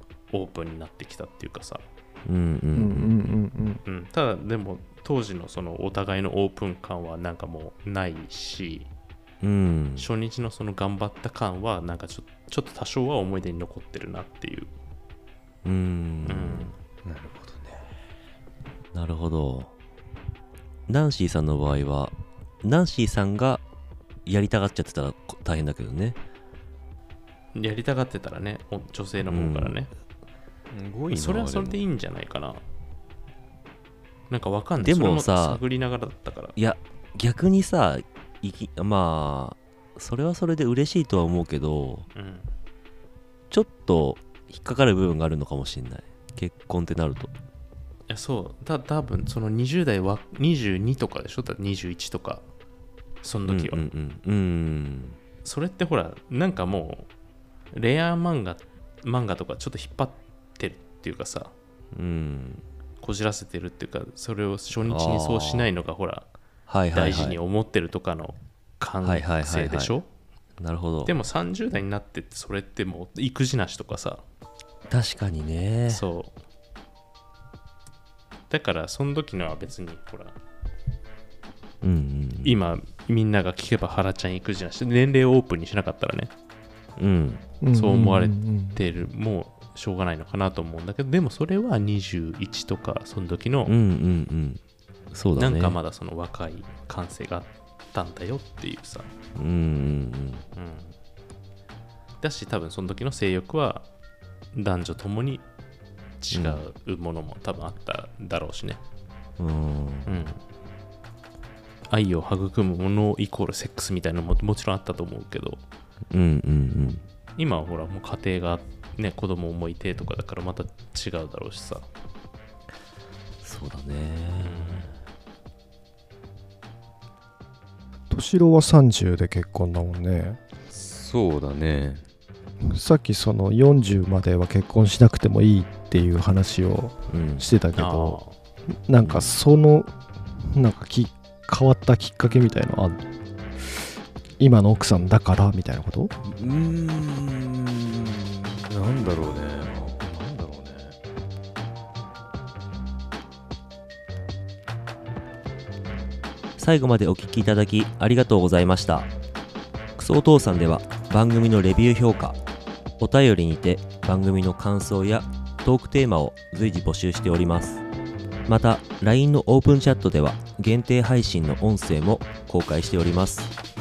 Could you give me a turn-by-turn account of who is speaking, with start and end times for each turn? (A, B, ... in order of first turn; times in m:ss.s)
0:00.3-0:01.8 A
0:02.2-0:03.1 B
0:02.7-0:03.8 C
0:03.8-0:08.9 A
0:09.4-0:10.0 B
0:10.0-0:14.7 A
0:15.6-0:16.7 B
0:16.2-0:16.7 A
0:17.0-0:17.8 D
0:18.9-0:19.7 B
0:20.9-0:23.6 B
0:24.2-0:26.2 B
0:27.5-0:29.9 A
0:29.2-0:29.7 B
0:30.7-0:31.8 D
0:31.1-0:32.6 A
0:34.3-0:36.5 A
0:34.8-0:35.6 B
0:36.5-0:42.1 B
0:42.1-0:42.5 A
0:43.5-0:47.3 B
0:48.1-0:52.4 A
0:53.2-0:53.8 A
0:53.4-0:55.2 B
0:55.4-0:57.1 A
0:57.7-1:01.5 A
1:01.9-1:02.6 B
1:03.0-1:06.3 A
1:04.8-1:05.7 B
1:06.7-1:07.4 B
1:06.9-1:10.1 A
1:09.0-1:10.0 B
1:10.6-1:11.1 B
1:11.0-1:14.2 A
1:14.9-1:16.0 B
1:15.9-1:16.3 A
1:18.5-1:20.3 A
1:21.8-1:22.6 B
1:22.4-1:26.3 A
1:27.0-1:27.4 B
1:27.6-1:28.8 C
1:27.7-1:33.7 A
1:33.6-1:34.6 B
1:35.1-1:35.8 B
1:35.3-1:39.1 A
1:39.4-1:40.4 B
1:40.5-1:40.9 A
1:42.2-1:43.9 A
1:44.5-1:45.4 A
1:46.2-1:48.8 A
1:46.3-1:46.6 B
1:49.4-1:50.1 B
1:50.0-1:50.4 A
1:51.9-1:55.6 A
1:56.1-1:57.0 B
1:57.4-2:01.9 A
2:03.4-2:05.0 B
2:04.4-2:05.0 A
2:08.1-2:10.4 C
2:10.7-2:12.0 D
2:12.7-2:18.2 C
2:17.1-2:17.5 B
2:17.8-2:18.3 A
2:18.9-2:23.0 C
2:19.0-2:19.4 B
2:24.4-2:26.1 C
2:26.3-2:31.0 D
2:36.6-2:39.1 B
2:40.0-2:42.4 B
2:43.0-2:47.8 B
2:48.5-2:53.5 B